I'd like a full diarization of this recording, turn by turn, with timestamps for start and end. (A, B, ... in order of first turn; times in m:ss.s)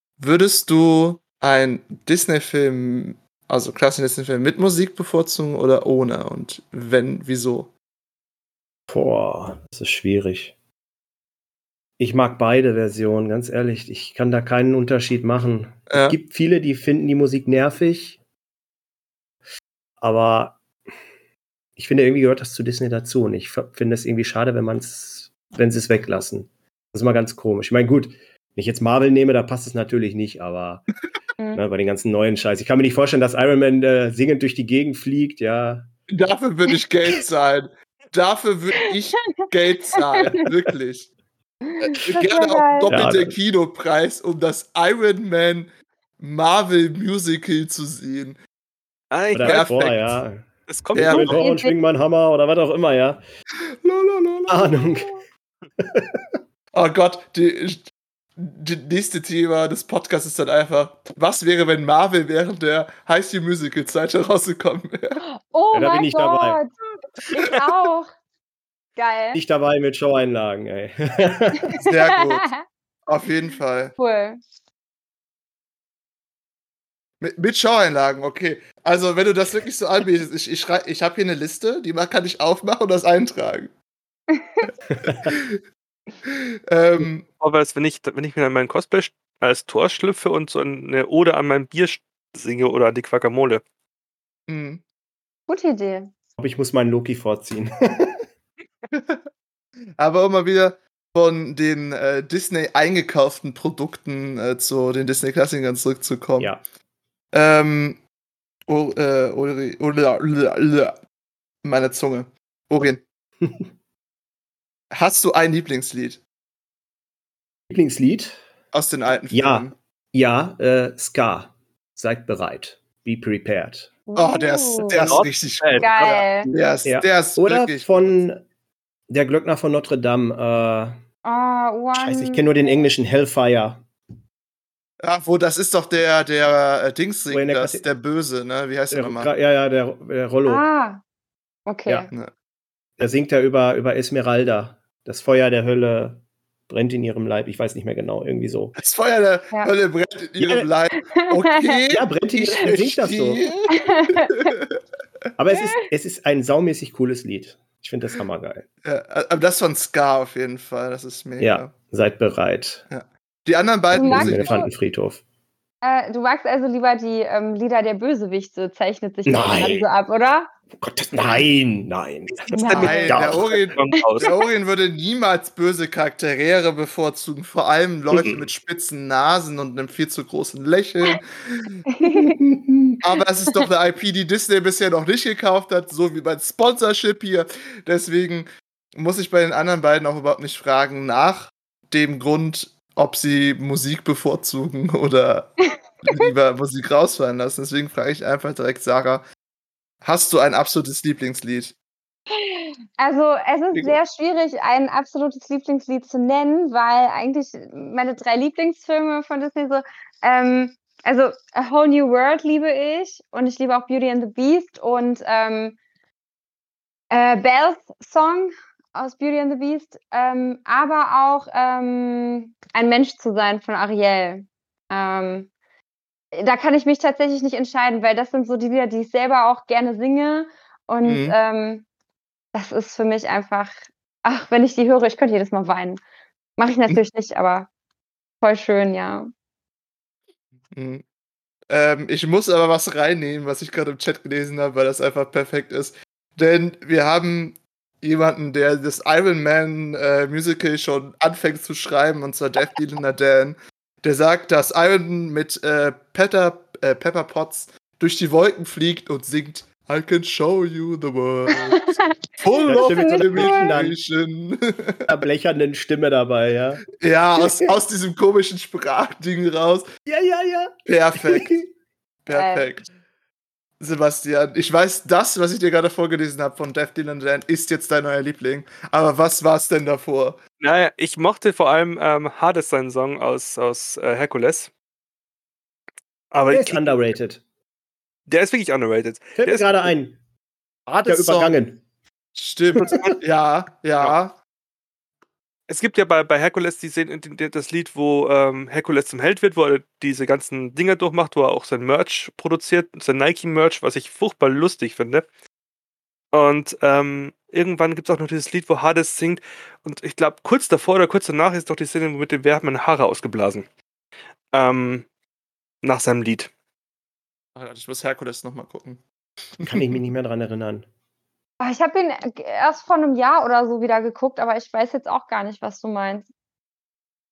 0:00.2-0:07.7 A
0:08.9-0:10.5 B
0:12.0-0:18.2 B
0:15.9-0:16.2 A
0:20.0-0:20.6 B
0:21.8-0:30.9 B
0:31.4-0:31.6 C
0:31.5-0:35.9 B
0:36.1-0:41.1 A
0:41.7-0:43.0 C
0:41.8-0:48.4 A
0:42.9-0:43.4 B
0:49.1-0:50.0 D
0:49.3-0:53.2 B
0:49.4-0:50.0 A
0:50.7-0:51.3 D
0:51.0-0:51.4 A
0:51.1-0:51.7 C
0:53.8-0:54.9 A
0:54.5-0:55.1 B
0:55.8-0:56.2 B
0:56.7-1:05.2 A
1:05.3-1:06.7 C
1:05.7-1:06.6 B
1:07.3-1:08.1 C
1:09.0-1:09.4 C
1:09.3-1:11.7 B
1:11.8-1:12.5 A
1:11.9-1:12.6 C
1:13.0-1:13.9 A
1:14.0-1:14.4 C
1:17.2-1:23.7 A
1:24.3-1:24.7 C
1:24.7-1:25.6 A
1:25.0-1:25.3 B
1:26.2-1:27.2 A
1:27.0-1:33.6 D
1:34.5-1:34.8 A
1:35.5-1:36.1 C
1:36.4-1:38.2 B
1:38.9-1:39.2 A
1:40.0-1:46.6 A
1:47.3-1:48.0 A
1:48.7-1:50.9 A
1:51.6-1:53.0 A
1:54.9-1:56.2 A
1:57.7-1:58.4 B
1:58.7-1:59.7 A
1:59.3-2:03.9 B
2:04.1-2:05.1 C
2:04.1-2:08.2 A
2:05.0-2:06.7 D
2:05.8-2:06.5 C
2:06.8-2:08.4 B
2:09.1-2:11.0 B
2:11.2-2:12.7 C
2:11.9-2:13.9 B
2:15.0-2:19.3 A
2:17.3-2:17.9 B
2:18.9-2:20.6 B
2:20.4-2:21.0 C
2:21.6-2:22.1 C
2:23.0-2:28.7 B
2:28.8-2:34.8 A
2:30.4-2:30.7 B
2:31.0-2:31.8 C
2:31.9-2:33.5 B
2:33.7-2:34.4 C
2:35.4-2:38.7 B
2:35.5-2:35.8 C
2:38.8-2:41.7 A
2:41.4-2:42.8 B
2:42.9-2:44.6 A
2:43.9-2:44.7 C
2:44.0-2:45.2 B
2:45.8-2:50.5 C
2:49.2-2:49.9 B
2:50.8-2:53.7 B
2:52.3-2:54.4 D
2:52.5-2:53.4 C
2:52.8-3:01.8 A
2:54.0-2:54.4 C
2:58.1-2:58.5 B
3:01.9-3:02.3 C
3:02.0-3:02.9 B
3:03.0-3:19.2 A
3:20.0-3:21.8 A
3:22.6-3:35.8 C
3:23.7-3:24.0 A
3:37.1-3:45.5 C
3:46.3-3:51.8 C
3:51.0-3:51.4 A
3:52.5-3:56.0 C
3:56.6-3:57.7 C
3:58.4-3:59.3 C
4:00.7-4:01.0 A
4:01.7-4:25.2 A
4:21.5-4:22.1 C
4:22.6-4:24.0 B
4:22.7-4:23.7 C
4:25.0-4:26.8 B
4:27.0-4:29.9 A
4:27.4-4:27.7 B
4:30.0-4:31.6 B
4:30.9-4:31.7 A
4:32.2-4:32.9 A
4:32.3-4:32.6 C
4:33.8-4:40.4 A
4:40.6-4:44.7 D
4:46.3-4:47.0 D
4:46.5-4:47.4 B
4:48.3-4:49.9 D
4:49.4-4:50.2 B
4:50.9-4:51.6 A
4:51.0-4:51.8 B
4:52.3-4:54.4 A
4:52.8-4:53.1 B
4:55.7-5:05.2 D
5:06.3-5:13.6 D
5:14.5-5:15.1 D
5:15.8-5:16.5 D
5:17.5-5:19.0 A
5:19.6-5:20.0 A
5:19.6-5:20.9 B
5:21.6-5:26.3 C